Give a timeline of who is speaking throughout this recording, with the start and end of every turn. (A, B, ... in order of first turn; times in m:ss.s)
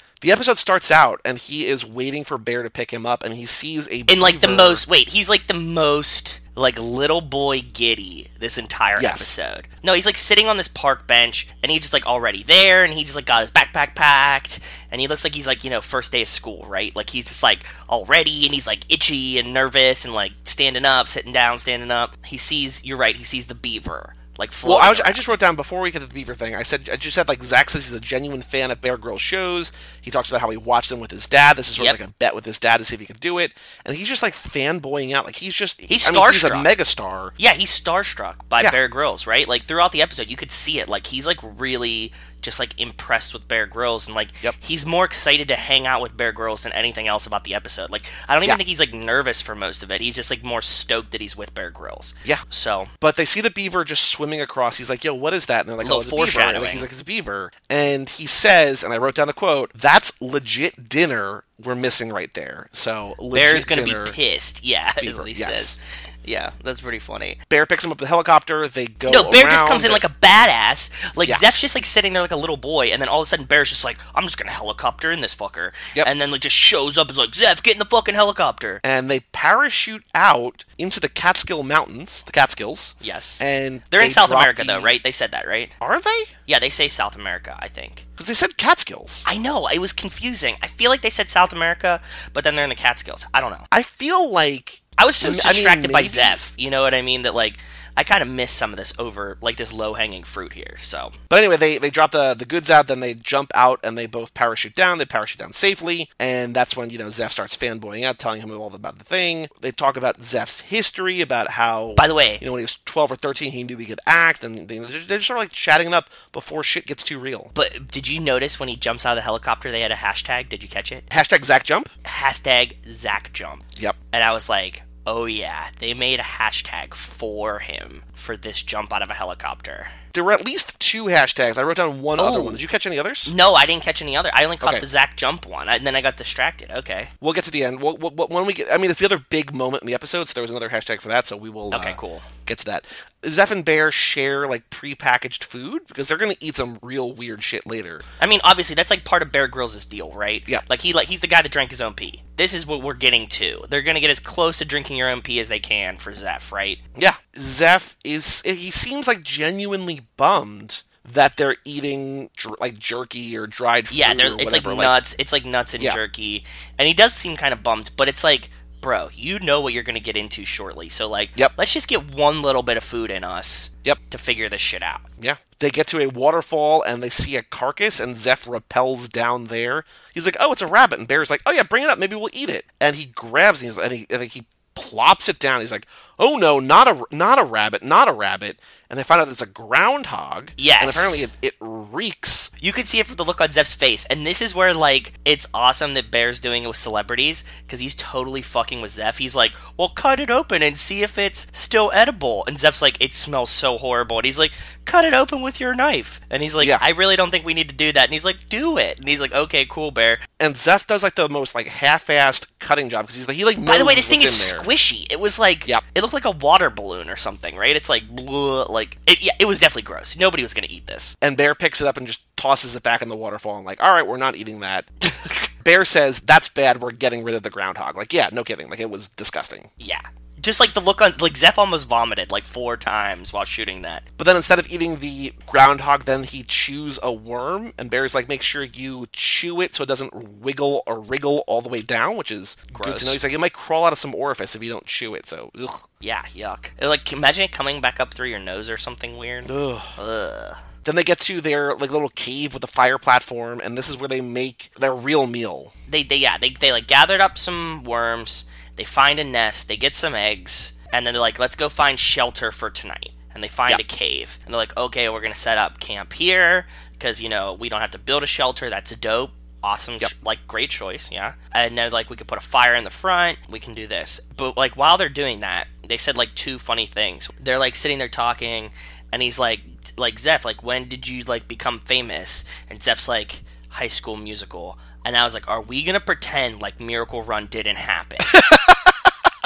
0:00.2-0:04.8 A
0:04.1-0:25.2 B
0:09.0-0:09.3 A
0:24.6-0:37.3 A
0:35.9-0:36.7 B
0:37.4-0:52.9 B
0:53.0-1:04.2 A
0:55.8-0:56.8 B
1:03.3-1:07.4 B
1:05.0-1:05.8 A
1:07.5-1:10.0 A
1:09.0-1:18.8 B
1:11.2-1:11.6 A
1:18.8-1:24.9 A
1:23.0-1:25.7 B
1:25.8-1:26.3 A
1:26.4-1:28.0 B
1:28.2-1:29.2 A
1:29.2-1:33.6 B
1:33.7-1:36.4 A
1:35.0-1:41.1 B
1:41.3-1:57.5 A
1:52.0-1:52.4 B
1:57.5-2:01.1 B
2:01.1-2:01.9 A
2:02.0-2:09.9 B
2:10.1-2:13.3 A
2:12.2-2:12.6 B
2:13.2-2:17.1 B
2:17.2-2:28.0 A
2:21.7-2:22.3 B
2:28.2-2:36.8 B
2:36.9-2:45.0 A
2:43.9-2:55.1 B
2:55.2-3:12.5 A
3:10.6-3:11.2 B
3:12.6-3:30.2 B
3:30.4-3:34.7 A
3:33.6-3:41.1 B
3:41.2-3:44.9 A
3:45.1-3:45.5 B
3:45.6-3:49.7 A
3:49.8-3:54.0 B
3:54.2-4:05.8 A
4:02.7-4:03.2 B
4:06.0-4:10.6 B
4:09.4-4:09.9 A
4:10.8-4:15.7 A
4:15.9-4:48.4 B
4:48.3-4:48.9 A